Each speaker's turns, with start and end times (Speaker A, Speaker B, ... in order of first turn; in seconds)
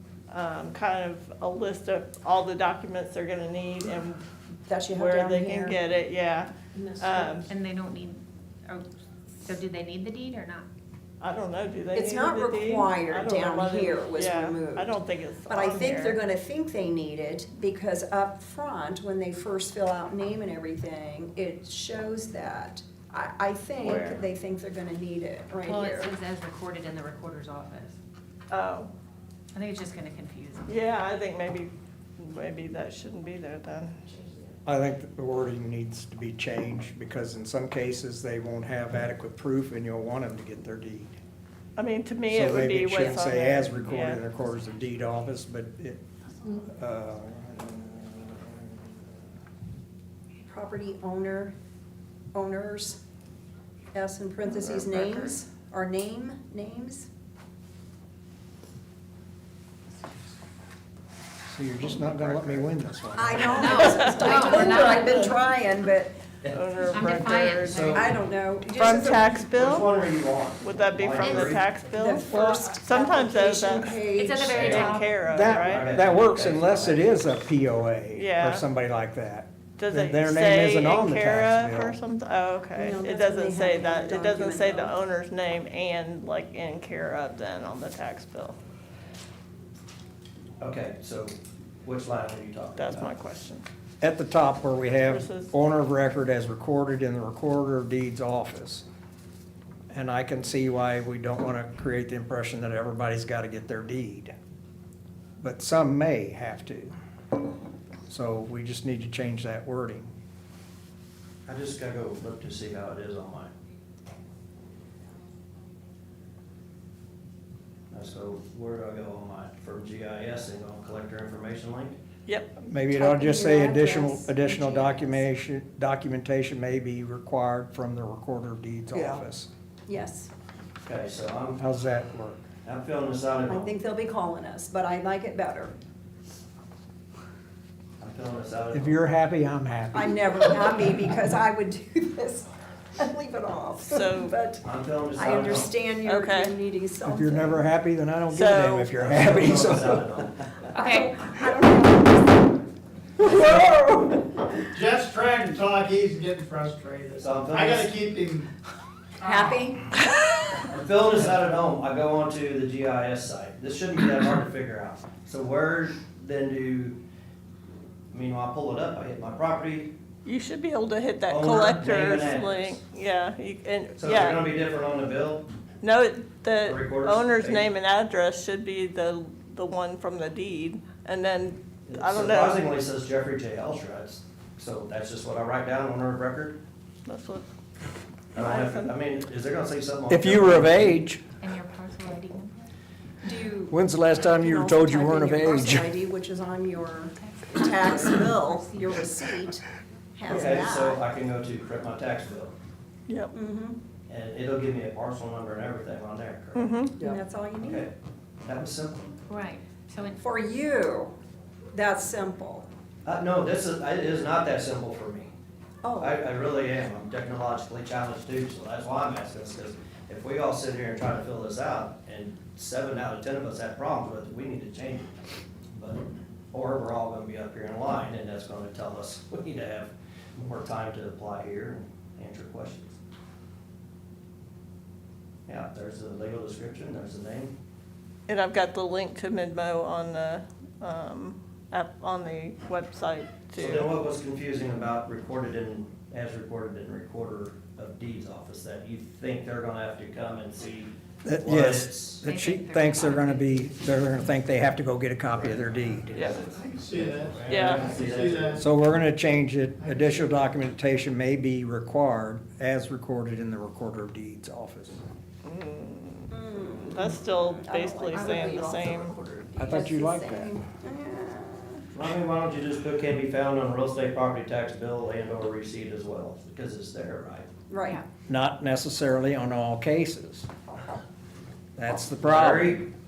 Speaker A: 0.3-4.2, 4.9-7.5, 11.2-16.2, 23.8-24.2, 28.5-28.9, 30.6-34.0, 41.8-44.2, 54.5-55.2, 63.8-65.2, 66.5-68.0, 68.7-69.9, 70.6-74.0, 74.6-75.9, 78.1-78.6, 79.8-88.6, 92.8-93.6, 95.0-95.5, 122.3-122.5, 143.9-144.3, 146.0-146.5, 148.3-149.0, 170.2-174.5, 175.8-182.6, 187.1-187.4, 188.4-188.9, 203.1-203.3, 206.5-207.0, 238.3-243.9, 257.5-257.9, 265.4-269.1
Speaker B: 4.7-5.8, 11.9-14.9, 15.5-26.1, 50.4-51.5, 52.3-53.0, 53.9-57.1, 63.1-66.2, 67.9-69.5, 71.9-74.9, 82.8-85.0, 122.9-125.2, 128.9-129.2, 129.9-130.3, 133.5-135.7, 139.9-144.6, 145.1-147.7, 150.7-152.6, 159.2-159.9, 193.2-199.6, 200.2-201.0, 203.3-203.8, 207.0-207.9, 210.2-211.1, 211.7-212.6, 215.8-216.2, 266.3-268.9, 269.6-271.8, 277.7-278.0
Speaker C: 7.5-8.9, 9.4-10.7, 25.6-28.0, 29.5-30.7, 63.5-65.3, 66.9-68.1, 71.2-71.5, 74.1-75.1, 150.7-151.2, 191.4-192.7, 197.2-199.0, 209.3-210.2, 252.2-253.6, 268.1-269.5
Speaker D: 34.6-41.1, 42.3-48.9, 61.5-63.8, 72.3-72.6, 75.2-82.0, 94.0-98.8, 99.9-104.3, 105.4-106.9, 108.1-110.1, 122.6-129.5, 131.6-132.5, 138.7-140.6, 147.0-150.2, 153.2-154.2, 190.1-191.2, 193.7-195.9, 251.2-256.4, 258.5-265.0, 269.6-270.6, 278.3-280.5, 281.8-282.8
Speaker E: 62.0-62.6, 67.7-68.0, 69.5-71.6, 74.5-77.0, 90.6-93.1, 111.5-113.5, 117.9-122.0, 130.8-131.6, 132.6-133.7, 138.0-139.0, 144.6-145.8, 148.9-150.4, 157.2-157.9, 160.6-167.0, 168.1-169.9, 171.3-172.8, 174.0-175.4, 176.6-177.7, 181.8-186.6, 188.3-191.0, 200.3-202.5, 204.1-206.7, 207.6-209.1, 213.0-215.3, 216.0-225.1, 225.7-233.0, 235.5-237.5, 243.6-252.2, 255.3-258.6, 271.9-277.5, 282.2-282.8
Speaker F: 154.7-158.5, 256.4-258.6, 259.8-260.3